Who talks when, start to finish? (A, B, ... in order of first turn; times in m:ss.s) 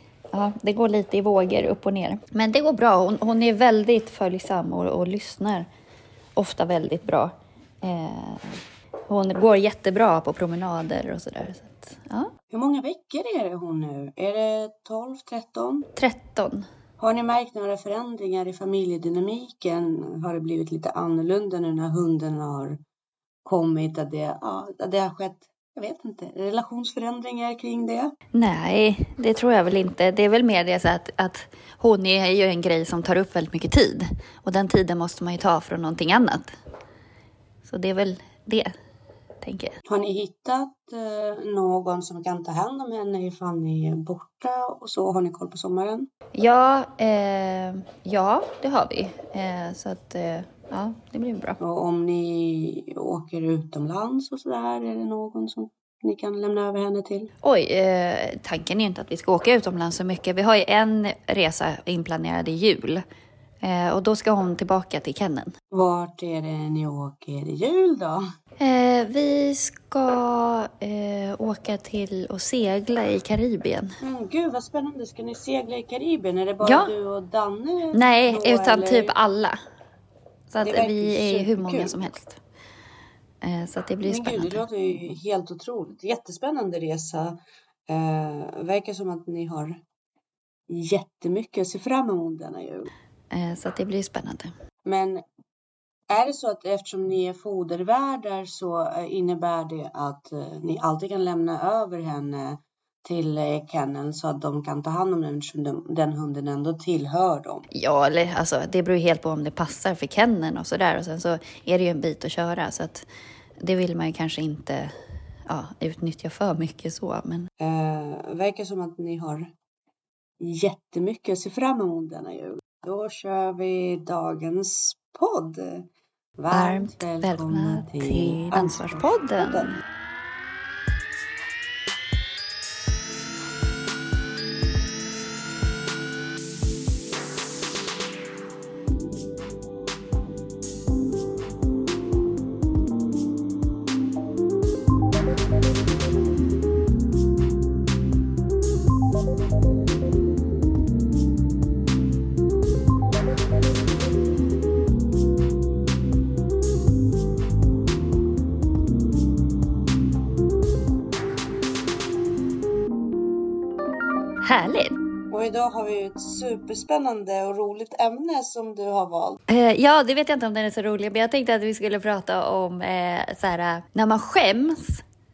0:00.3-0:05.7 A
0:06.4-0:12.3 A
0:12.5-0:15.9 B
0:16.0-0:16.7 A
0:17.0-0:22.8 B
0:23.4-0:28.1 B
0:28.3-0:36.5 A
0:37.6-0:38.7 A
0:39.4-0:39.8 A
0:39.8-0:46.1 B
0:46.3-0:51.6 A
0:51.6-0:57.3 B
0:57.4-1:03.0 A
1:03.6-1:05.5 A
1:05.7-1:08.2 B
1:08.6-1:14.0 A
1:14.0-1:19.1 B
1:16.6-1:16.9 A
1:17.9-1:19.6 A
1:20.5-1:22.4 A
1:20.6-1:22.0 B
1:23.4-1:24.6 A
1:24.0-1:29.8 B
1:30.7-1:32.9 B
1:33.3-1:34.5 A
1:34.8-1:35.2 B
1:36.1-1:47.7 B
1:47.7-1:53.1 A
1:53.6-1:54.9 A
1:55.5-1:57.5 A
1:57.6-1:59.5 B
2:00.4-2:09.8 B
2:06.5-2:09.8 A
2:44.4-2:44.9 A
2:45.3-2:49.4 B
2:49.5-2:55.0 A